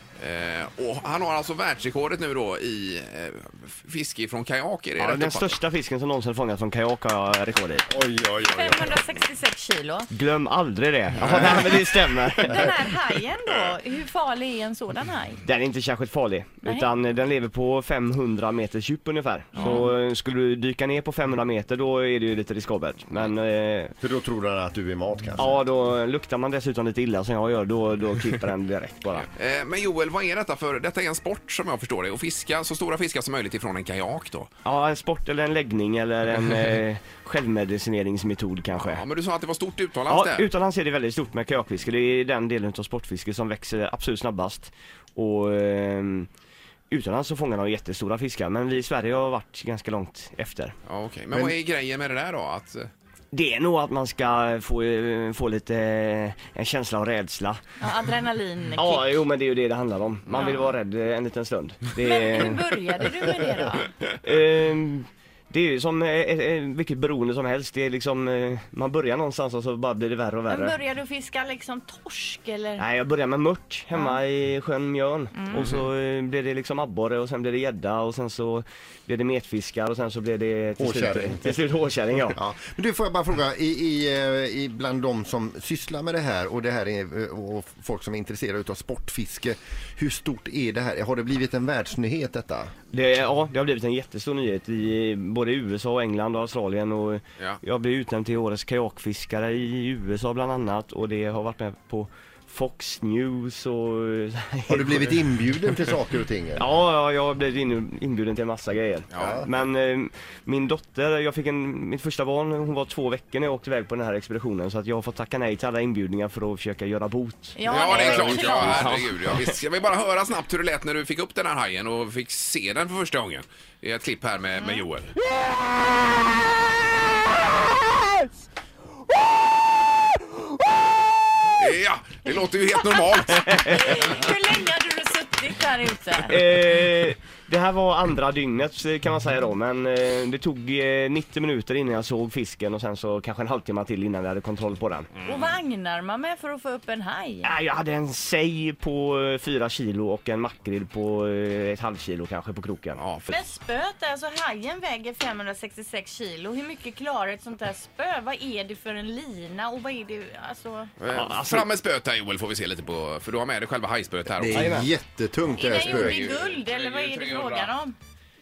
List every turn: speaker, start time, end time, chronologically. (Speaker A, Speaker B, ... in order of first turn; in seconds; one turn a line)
Speaker A: 0.2-5.5
Speaker B: 5.0-7.9
Speaker C: 7.9-8.8
Speaker D: 8.4-10.1
Speaker B: 10.1-12.7
Speaker A: 11.2-12.2
Speaker D: 12.3-15.4
Speaker B: 15.4-23.9
Speaker D: 16.6-16.9
Speaker D: 19.6-19.8
Speaker C: 24.0-25.5
Speaker B: 25.4-29.3
Speaker A: 29.2-34.5
Speaker B: 34.6-39.0
Speaker A: 38.8-40.5
Speaker B: 40.1-46.3
Speaker B: 46.9-50.8
Speaker A: 50.9-52.9
Speaker B: 53.3-57.6
Speaker D: 57.8-59.2
Speaker B: 58.8-62.6
Speaker D: 62.0-63.9
Speaker B: 64.1-70.8
Speaker D: 70.5-72.8
Speaker B: 72.8-82.4
Speaker D: 75.3-75.7
Speaker C: 80.8-81.6
Speaker C: 82.3-92.7
Speaker B: 92.9-105.8
Speaker C: 104.7-106.7
Speaker B: 106.6-117.6
Speaker A: 109.1-109.5
Speaker C: 109.2-109.5
Speaker D: 117.5-118.8
Speaker A: 117.7-125.1
Speaker C: 117.9-118.9
Speaker B: 118.5-119.5
Speaker A: 131.6-133.9
Speaker D: 133.7-136.4
Speaker B: 136.3-145.1
Speaker D: 145.2-147.5
Speaker B: 147.4-153.0
Speaker A: 153.0-153.4
Speaker D: 153.3-160.9
Speaker A: 161.0-164.7
Speaker B: 161.1-161.7
Speaker C: 164.4-166.3
Speaker B: 164.5-164.9
Speaker D: 165.6-167.9
Speaker A: 165.6-167.7